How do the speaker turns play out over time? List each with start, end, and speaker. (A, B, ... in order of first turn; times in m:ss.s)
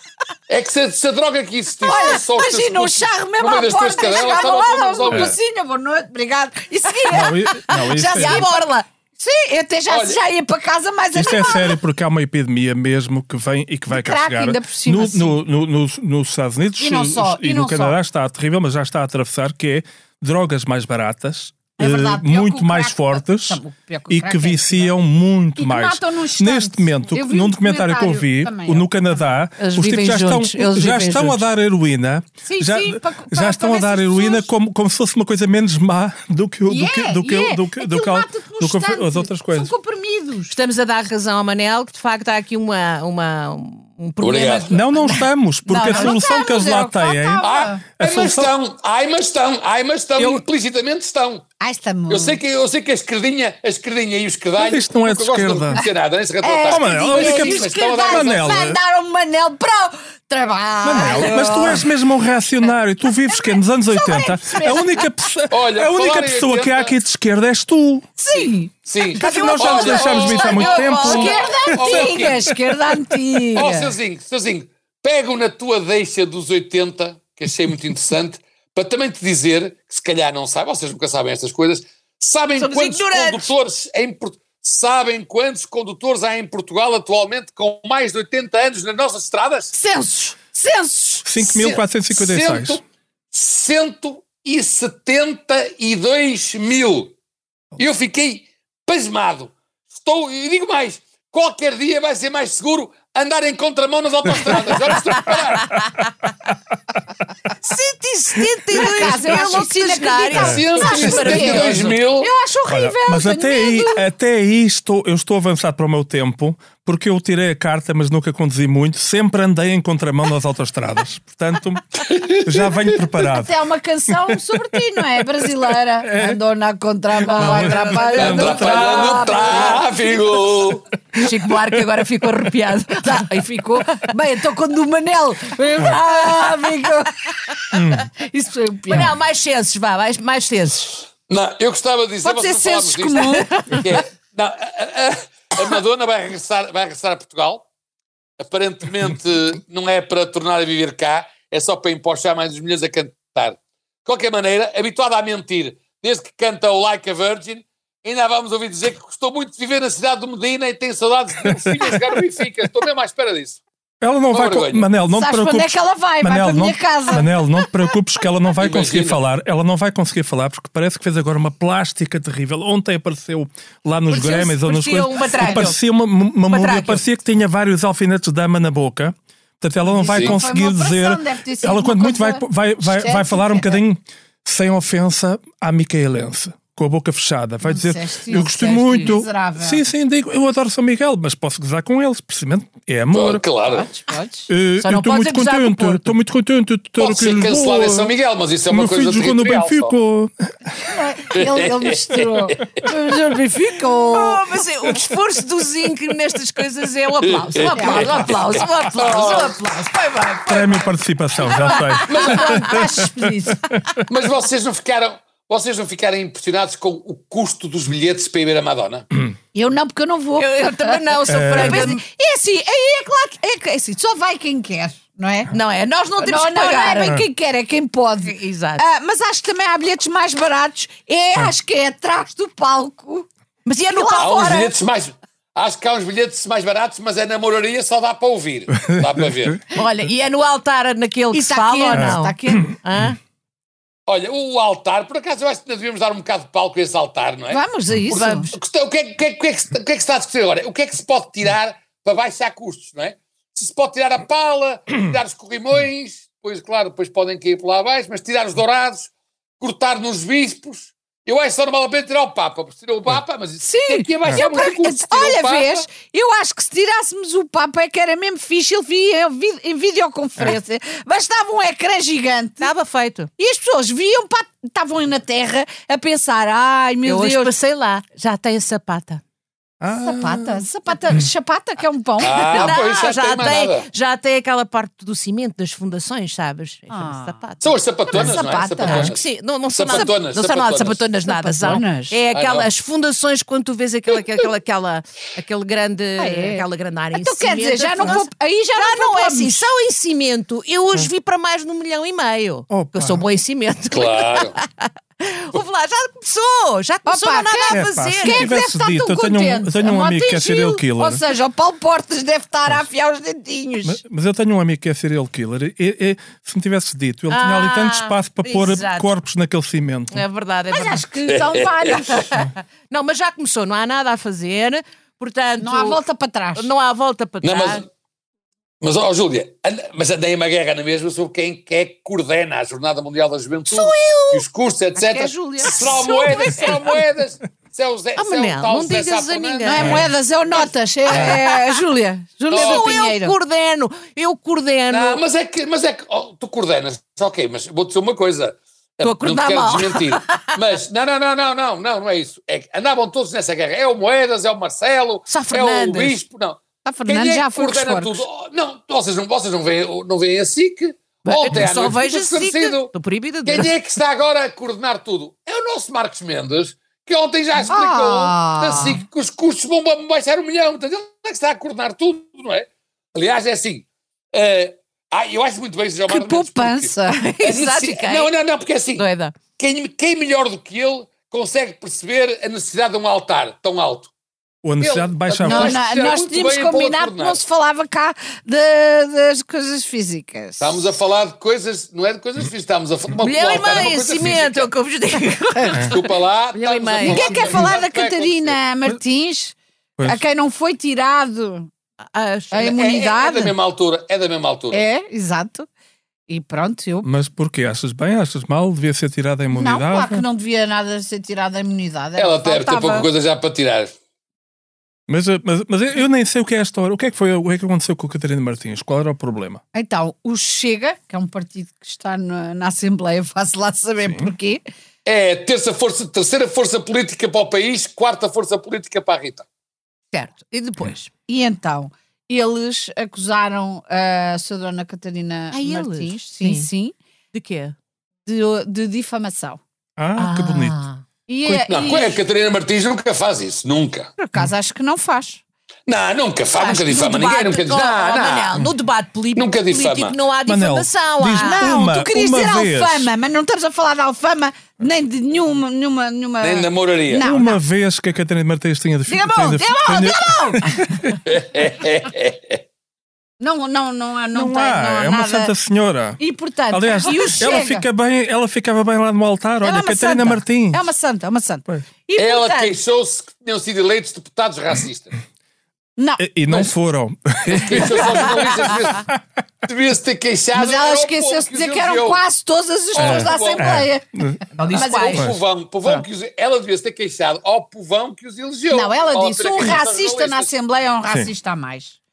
0:00.5-0:05.3 A
0:01.8-0:11.8 B
0:05.1-0:05.4 C
0:07.1-0:08.5 C
0:07.1-0:08.8 D
0:09.9-0:10.2 A
0:11.1-0:39.7 C
0:13.9-0:15.4 B
0:16.8-0:18.0 B
0:21.8-0:25.0 B
0:25.6-0:28.9 B
0:29.6-0:31.4 D
0:32.4-0:34.5 B
0:36.7-0:40.6 B
0:40.5-0:46.2 D
0:44.2-0:44.8 A
0:44.7-0:47.4 C
0:45.8-0:47.8 B
0:47.4-0:51.5 A
0:48.0-0:48.5 C
0:50.2-0:50.4 C
0:51.6-0:52.4 B
0:52.1-0:58.7 A
0:54.6-0:55.8 C
0:56.4-1:01.9 B
0:56.7-0:58.8 C
1:00.8-1:08.1 C
1:03.3-1:05.1 B
1:05.5-1:06.9 A
1:08.2-1:13.9 B
1:08.9-1:12.4 A
1:09.2-1:13.1 C
1:10.0-1:11.4 D
1:13.5-1:29.7 A
1:22.6-1:23.5 D
1:29.7-1:31.3 B
1:31.2-1:32.8 C
1:31.4-1:37.2 A
1:37.8-1:45.9 A
1:47.6-1:52.0 D
1:48.7-1:54.0 B
1:50.4-1:51.1 C
1:50.4-1:52.3 A
1:52.7-2:03.5 C
2:02.0-2:03.0 A
2:03.3-2:09.9 B
2:04.3-2:04.8 C
2:06.0-2:06.4 C
2:07.2-2:09.7 C
2:07.4-2:09.7 D
2:08.1-2:10.9 A
2:11.2-2:13.4 D
2:13.0-2:17.3 B
2:15.8-2:16.7 D
2:17.7-2:18.1 C
2:18.2-2:19.1 B
2:18.9-2:21.0 D
2:21.3-2:27.6 A
2:22.2-2:24.0 B
2:28.4-2:43.6 A
2:44.0-3:13.4 C
2:44.3-2:44.9 A
2:45.1-2:47.6 B
2:48.6-2:49.2 A
2:54.1-2:55.8 D
2:56.5-2:57.0 D
2:59.8-3:03.8 B
3:00.1-3:00.4 A
3:07.6-3:09.8 B
3:13.1-3:13.9 A
3:13.6-3:14.5 B
3:14.5-3:18.1 C
3:14.8-3:16.1 D
3:17.0-3:19.9 A
3:18.7-3:20.3 C
3:20.8-3:24.4 B
3:21.3-3:22.7 A
3:23.9-3:33.1 D
3:27.3-3:29.6 A
3:27.7-3:28.4 B
3:29.1-3:29.5 B
3:30.5-3:34.0 C
3:31.5-3:33.6 B
3:32.1-3:32.7 A
3:34.1-3:39.1 A
3:39.5-3:45.5 B
3:40.4-3:42.0 D
3:41.3-3:42.0 C
3:45.5-3:47.2 D
3:46.2-3:53.3 B
3:48.2-3:48.8 D
3:53.7-3:54.7 D
3:53.9-3:54.7 B
3:54.2-3:59.6 A
3:58.8-3:59.6 C
3:59.7-4:03.2 D
4:01.3-4:02.7 B
4:04.1-4:25.9 A
4:07.5-4:08.6 B
4:08.1-4:08.5 D
4:23.6-4:32.7 B
4:32.6-4:33.3 D
4:33.4-4:37.5 B
4:37.1-4:39.2 D
4:39.8-4:40.6 C
4:40.0-4:42.8 B
4:42.2-4:43.9 A
4:42.2-4:47.8 D
4:46.9-4:47.4 B
4:47.6-4:49.2 A
4:48.1-4:49.1 B
4:48.8-5:08.5 D
4:49.7-4:51.0 A
4:49.9-4:50.2 B
4:51.3-4:52.2 B
4:52.3-4:52.7 A
4:56.2-4:56.6 B
4:57.2-4:59.7 B
5:02.7-5:03.2 C
5:03.9-5:04.6 A
5:07.1-5:14.0 B
5:07.7-5:11.2 C
5:13.8-5:20.2 C
5:17.3-5:19.1 D
5:20.1-5:21.0 D
5:20.7-5:22.4 B
5:21.3-5:22.2 A
5:22.3-5:26.0 D
5:25.6-5:26.7 B
5:26.6-5:27.8 D
5:27.4-5:27.9 A
5:28.8-5:40.0 A
5:33.7-5:34.4 D
5:35.0-5:36.9 B
5:35.3-5:36.9 D
5:38.2-5:40.1 D
5:39.6-5:43.4 B
5:39.8-5:40.1 C
5:41.1-5:41.7 D
5:42.5-5:43.0 A
5:42.5-5:45.2 D
5:44.9-6:02.9 A
5:49.0-5:50.6 D
5:55.3-5:56.2 D
5:56.8-5:58.2 B
6:01.2-6:03.8 D
6:03.5-6:19.1 A
6:07.7-6:09.0 B
6:16.1-6:17.3 B
6:17.1-6:18.3 D
6:19.0-6:19.4 D
6:19.6-6:24.1 A
6:24.6-6:25.8 C
6:24.8-6:27.4 A
6:25.4-6:30.9 B
6:30.6-6:34.7 A
6:33.2-6:37.6 D
6:35.6-6:35.8 B
6:35.9-6:38.6 A
6:37.0-6:41.7 B
6:42.1-6:42.7 D
6:42.5-6:43.6 B
6:42.6-6:44.8 A
6:44.7-6:45.7 B
6:46.3-6:47.1 B
6:47.0-6:50.2 C
6:49.5-6:53.1 B
6:52.2-6:53.9 A
6:55.1-6:59.6 C
6:59.7-7:04.6 B
7:04.0-7:04.3 C
7:05.0-7:09.5 A
7:10.1-7:11.1 D
7:11.3-7:17.0 B
7:15.5-7:16.7 D
7:17.3-7:17.8 D
7:18.3-7:19.6 B
7:20.0-7:20.8 C
7:20.2-7:21.0 D
7:21.3-7:22.2 B
7:21.7-7:24.1 A
7:24.2-7:25.4 B
7:25.9-7:28.6 A
7:26.6-7:31.7 D
7:29.4-7:30.2 A
7:30.5-7:33.1 C
7:31.4-7:37.6 B
7:36.4-7:37.3 A
7:37.2-7:41.2 C
7:39.1-7:41.1 B
7:41.3-7:42.6 A
7:43.4-7:45.5 B
7:44.3-7:50.9 C
7:46.2-7:47.8 B
7:49.6-7:52.8 B
7:52.2-7:55.1 A
7:56.0-7:56.2 B
7:56.2-7:58.3 C
7:57.5-7:59.1 A
7:59.6-8:02.2 A
8:00.5-8:04.0 B
8:02.9-8:03.7 A
8:03.0-8:04.4 C
8:04.6-8:05.3 D
8:04.7-8:05.2 B
8:04.8-8:10.5 A
8:08.7-8:12.0 B